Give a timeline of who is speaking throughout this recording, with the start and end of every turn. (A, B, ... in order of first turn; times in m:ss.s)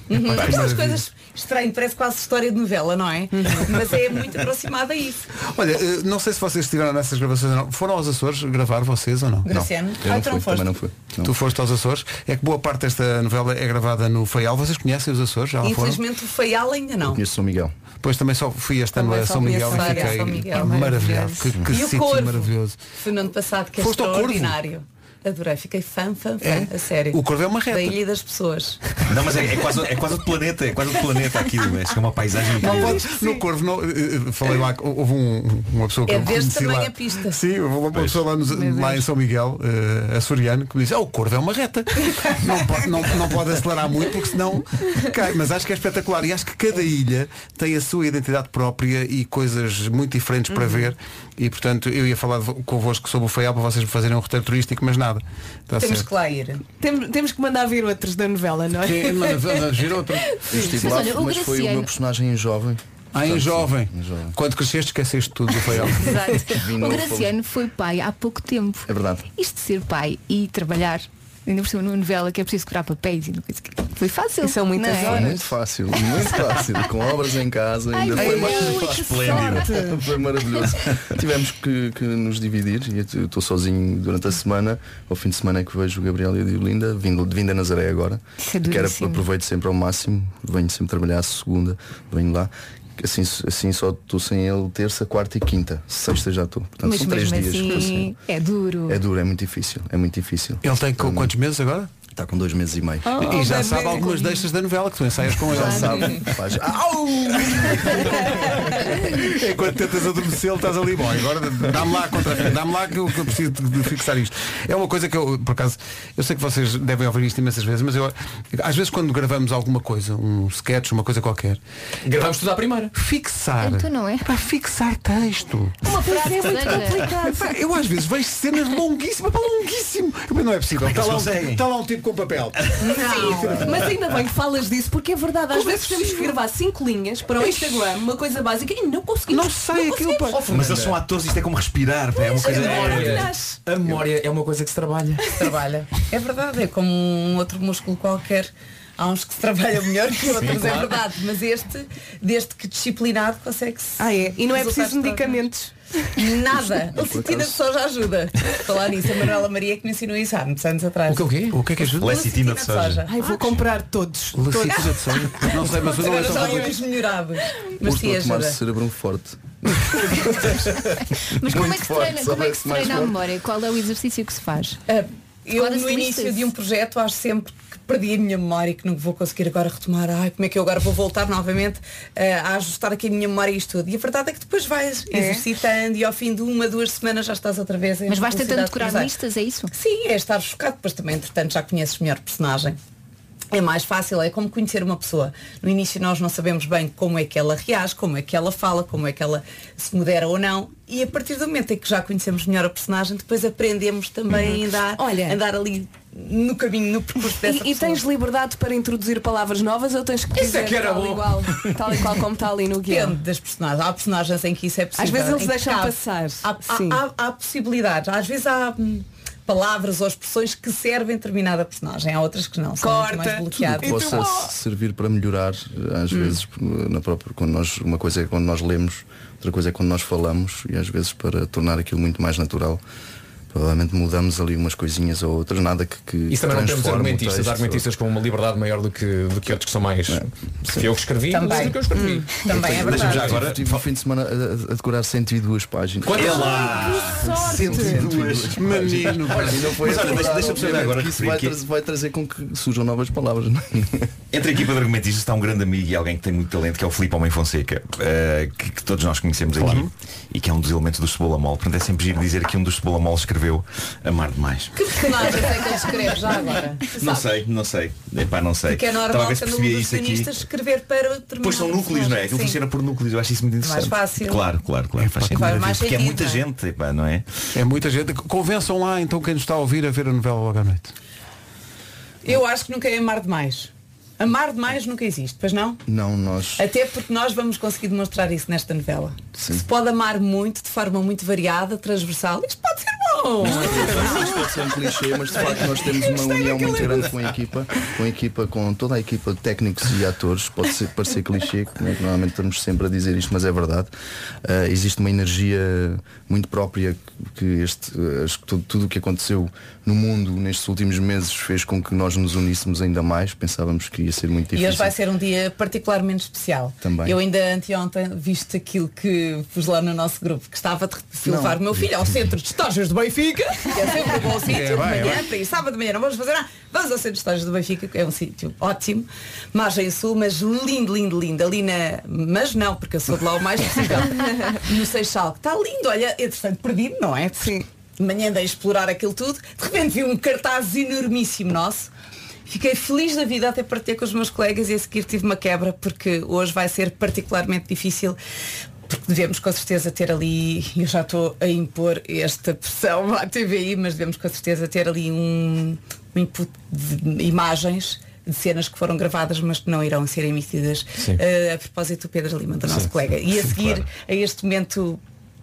0:00.1-0:05.3 A
0:00.2-0:01.0 B
0:05.4-0:09.5 B
0:09.5-0:10.7 A
0:09.5-0:11.4 C
0:11.2-0:16.0 B
0:15.6-0:17.2 A
0:17.0-0:17.7 C
0:18.0-0:22.8 B
0:18.9-0:20.3 D
0:19.5-0:28.8 A
0:20.8-0:21.5 E
0:23.8-0:24.6 B
0:26.4-0:28.0 B
0:29.1-0:33.0 F
0:32.6-0:56.1 B
0:36.1-0:37.4 A
0:37.9-0:38.2 F
0:50.5-0:50.8 D
0:55.8-0:56.6 A
0:56.8-0:59.6 D
0:58.8-1:00.7 B
1:00.5-1:04.4 C
1:00.6-1:01.9 E
1:03.1-1:06.2 B
1:05.7-1:07.4 C
1:06.0-1:15.5 E
1:08.9-1:09.3 C
1:14.2-1:15.4 D
1:15.0-1:38.2 C
1:16.2-1:16.5 E
1:17.9-1:19.2 E
1:18.2-1:20.1 D
1:18.9-1:19.7 F
1:28.4-1:29.3 E
1:36.8-1:39.0 E
1:38.9-1:41.3 C
1:40.6-1:41.9 B
1:42.1-1:43.1 C
1:43.1-1:44.3 D
1:43.2-1:46.3 B
1:45.5-1:48.9 C
1:45.5-1:46.0 E
1:47.2-2:01.6 B
2:02.0-2:02.9 G
2:03.0-2:05.9 B
2:03.6-2:04.2 E
2:05.8-2:07.1 E
2:05.9-2:07.5 D
2:07.4-2:13.9 B
2:10.8-2:11.6 F
2:12.8-2:13.6 A
2:13.4-2:20.4 D
2:19.3-2:20.5 B
2:20.4-2:21.0 G
2:20.5-2:23.4 F
2:22.2-2:23.6 D
2:22.4-2:25.3 G
2:25.4-2:35.5 A
2:30.4-2:30.7 F
2:30.5-2:30.9 G
2:34.0-2:35.7 D
2:36.2-2:43.4 A
2:36.9-2:37.6 C
2:41.1-2:41.6 G
2:41.5-2:42.2 B
2:42.0-2:43.0 F
2:43.0-2:45.0 D
2:44.4-2:46.8 B
2:44.7-2:48.6 A
2:45.8-2:46.6 D
2:47.8-2:53.2 C
2:51.4-2:54.8 E
2:54.9-3:09.2 A
2:55.5-2:56.5 E
3:05.1-3:05.4 D
3:08.1-3:09.7 E
3:09.7-3:12.8 A
3:13.5-3:28.0 A
3:24.3-3:25.4 D
3:27.4-3:33.2 D
3:30.4-3:31.8 G
3:32.9-3:44.2 A
3:35.0-3:37.0 D
3:42.8-3:44.5 D
3:43.6-3:52.8 C
3:46.1-3:46.4 D
3:53.5-3:57.9 C
3:56.3-4:03.4 G
4:01.3-4:03.4 A
4:01.9-4:02.4 D
4:02.6-4:14.1 C
4:02.9-4:03.8 F
4:06.0-4:07.1 G
4:06.1-4:11.6 F
4:06.3-4:08.1 D
4:07.8-4:10.8 B
4:14.3-4:25.0 F
4:19.6-4:19.9 B
4:24.8-4:27.3 A
4:27.0-4:30.3 F
4:28.7-4:32.6 A
4:31.4-4:37.2 F
4:33.6-4:34.5 A
4:35.0-4:35.6 B
4:35.3-4:36.4 A
4:37.5-4:41.0 B
4:42.2-4:45.8 A
4:45.9-4:46.6 C
4:46.6-4:54.5 A
4:49.4-4:49.7 C
4:53.4-5:03.9 C
4:56.1-4:56.9 A
5:04.4-5:15.0 C
5:14.5-5:41.9 A
5:16.8-5:17.2 C
5:21.2-5:21.8 C
5:24.4-5:25.2 B
5:42.5-5:48.2 A
5:48.9-6:05.0 A